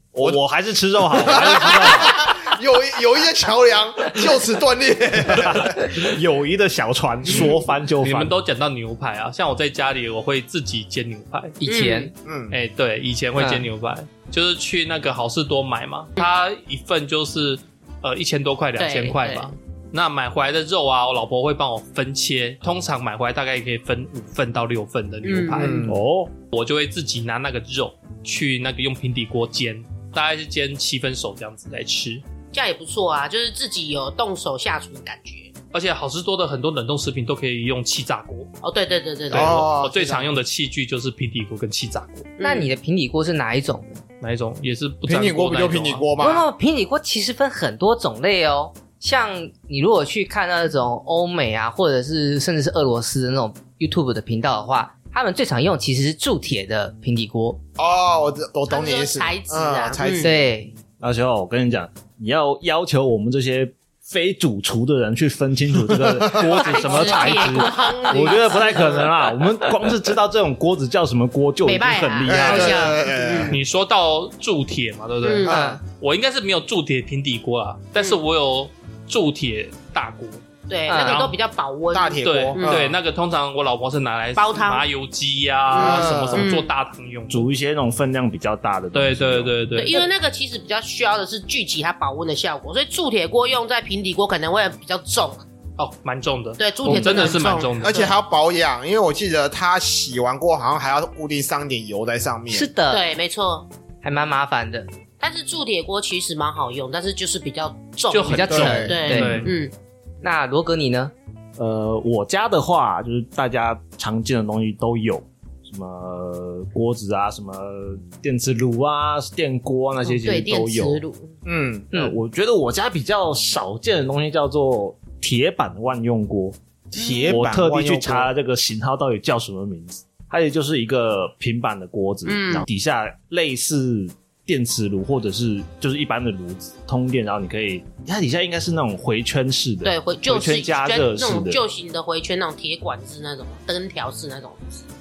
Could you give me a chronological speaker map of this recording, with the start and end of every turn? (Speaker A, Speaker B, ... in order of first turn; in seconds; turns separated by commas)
Speaker A: 0.1-2.3, Speaker B: 1.2-5.9, Speaker A: 5.3-8.3, Speaker C: 8.0-11.6, Speaker D: 11.6-12.1, Speaker E: 11.7-12.1, Speaker B: 12.2-12.6, Speaker C: 12.5-25.8, Speaker D: 13.4-13.7, Speaker E: 18.8-19.6, Speaker E: 25.2-25.8, Speaker B: 25.5-26.0, Speaker A: 25.9-26.3, Speaker C: 26.5-32.2, Speaker E: 32.5-35.5, Speaker C: 35.7-38.5, Speaker E: 38.6-39.6, Speaker C: 39.3-42.3, Speaker B: 39.3-40.3, Speaker E: 42.4-42.7, Speaker D: 42.4-44.0, Speaker C: 44.2-46.0, Speaker B: 45.1-46.5, Speaker D: 46.2-57.6, Speaker B: 57.8-60.5, Speaker E: 58.7-60.3, Speaker D: 60.2-60.7, Speaker A: 61.0-72.9, Speaker B: 65.9-67.1, Speaker E: 66.4-69.2, Speaker E: 71.7-73.6, Speaker B: 72.2-73.6, Speaker C: 73.5-80.4, Speaker E: 75.2-75.5, Speaker B: 75.5-75.8, Speaker D: 75.5-75.8, Speaker E: 80.7-82.9, Speaker D: 80.9-81.2, Speaker C: 81.0-81.4, Speaker B: 81.9-83.0, Speaker C: 82.2-87.5, Speaker E: 84.4-84.9, Speaker E: 85.7-86.7, Speaker B: 85.7-86.5, Speaker A: 87.3-89.5, Speaker C: 88.9-90.1, Speaker E: 89.8-95.4, Speaker C: 95.8-98.0, Speaker E: 96.6-98.1, Speaker D: 96.8-97.4, Speaker B: 97.8-102.7, Speaker D: 102.5-103.0, Speaker E: 102.9-103.7, Speaker D: 104.0-104.9, Speaker E: 105.2-109.7, Speaker C: 108.1-109.5, Speaker D: 108.3-109.5, Speaker B: 108.5-109.0, Speaker D: 110.2-111.1, Speaker A: 111.6-121.0, Speaker E: 120.0-121.3, Speaker B: 121.5-121.9, Speaker A: 121.9-141.6, Speaker B: 126.9-128.3, Speaker E: 132.2-132.7, Speaker E: 139.8-144.8